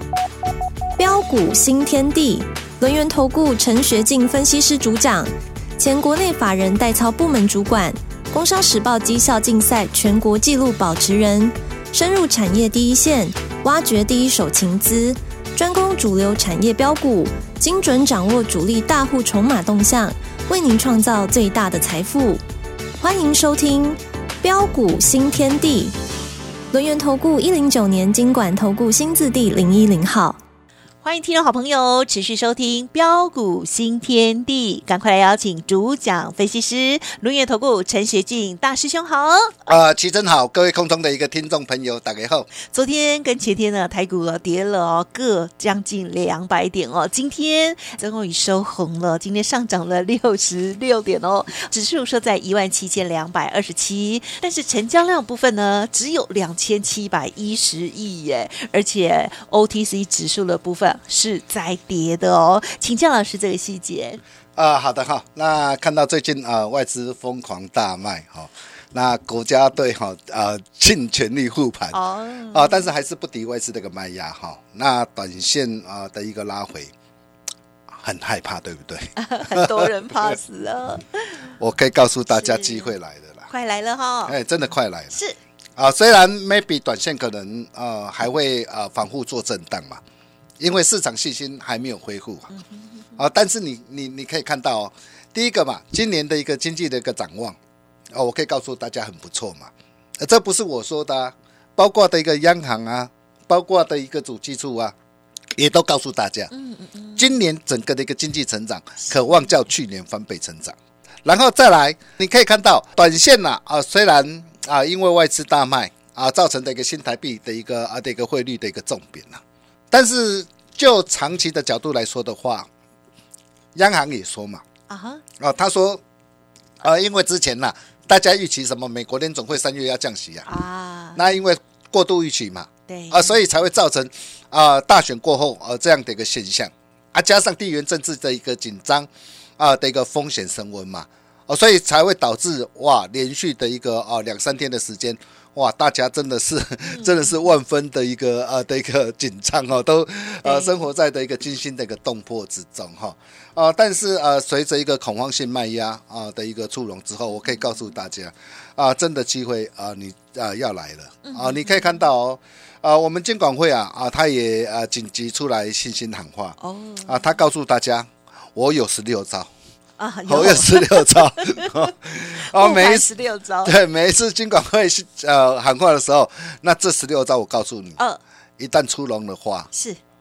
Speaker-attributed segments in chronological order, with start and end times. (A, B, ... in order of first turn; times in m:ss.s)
0:01.0-0:22.4 A
0:23.0-0:25.9 A
0:26.7-0:30.4 A
0:31.0-0:39.5 B
0:39.6-0:42.5 C
0:42.6-1:04.2 B
1:04.6-1:12.0 C
1:11.9-1:12.9 B
1:12.5-1:16.9 C
1:18.0-1:20.3 C
1:19.2-1:21.5 B
1:21.6-1:23.5 C
1:22.4-1:22.9 B
1:23.5-1:24.4 B
1:24.2-1:25.1 C
1:25.8-1:30.0 C
1:30.6-1:32.5 C
1:32.5-1:33.2 B
1:33.2-1:37.6 C
1:38.1-1:44.9 C
1:45.6-1:46.5 C
1:46.5-1:47.3 B
1:47.2-2:02.7 C
2:03.7-2:04.6 C
2:04.9-2:05.2 B
2:05.4-2:06.0 C
2:06.8-2:10.5 C
2:10.4-2:11.3 B
2:11.2-2:19.1 C
2:12.9-2:13.4 B
2:19.6-2:49.5 C
2:26.9-2:27.3 B
2:30.4-2:30.8 B
2:41.2-2:42.0 B
2:46.6-2:47.4 B
2:50.0-2:51.7 B
2:50.3-2:53.1 C
2:52.3-2:53.7 B
2:53.6-2:58.0 C
2:58.6-2:59.7 C
2:59.7-3:00.0 B